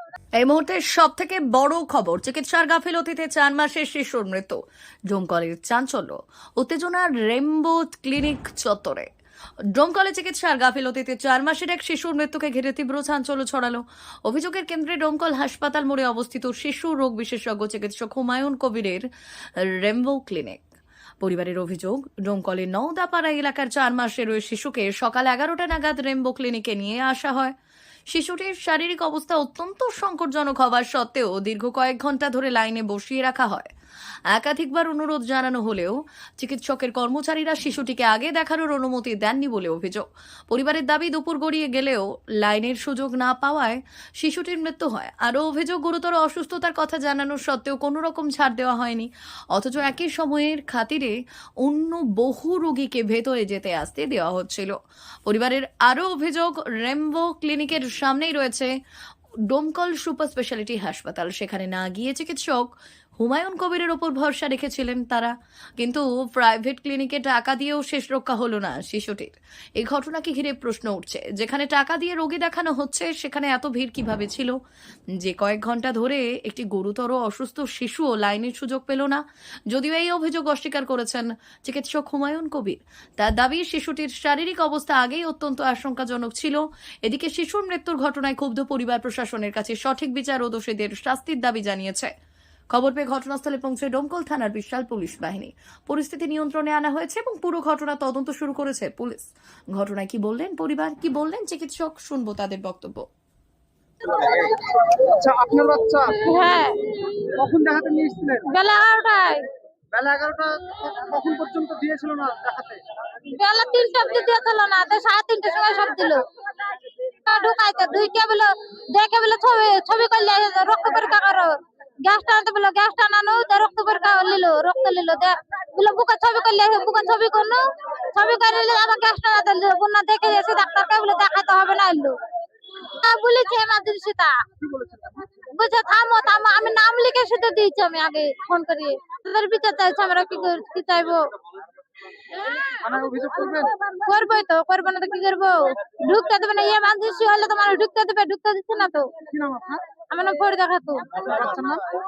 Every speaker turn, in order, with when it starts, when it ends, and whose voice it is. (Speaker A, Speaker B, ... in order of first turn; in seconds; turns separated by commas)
Speaker A: 0.4-4.6, Speaker A: 5.1-9.1, Speaker A: 9.8-19.0, Speaker A: 19.8-20.6, Speaker A: 21.2-27.5, Speaker A: 28.1-33.7, Speaker A: 34.3-51.1, Speaker A: 51.6-54.7, Speaker A: 55.3-58.7, Speaker A: 59.5-62.7, Speaker A: 63.2-74.5, Speaker A: 75.2-92.1, Speaker A: 92.7-103.0, Speaker B: 104.0-106.6, Speaker B: 107.3-108.5, Speaker C: 108.5-109.4, Speaker B: 109.9-112.8, Speaker C: 113.4-116.2, Speaker C: 117.3-127.6, Speaker C: 128.1-132.1, Speaker C: 133.1-134.3, Speaker B: 134.6-135.4, Speaker C: 135.6-141.2, Speaker B: 142.8-143.7, Speaker C: 144.1-145.5, Speaker C: 146.1-149.0, Speaker B: 149.3-149.8, Speaker C: 150.1-151.2, Speaker B: 151.2-151.8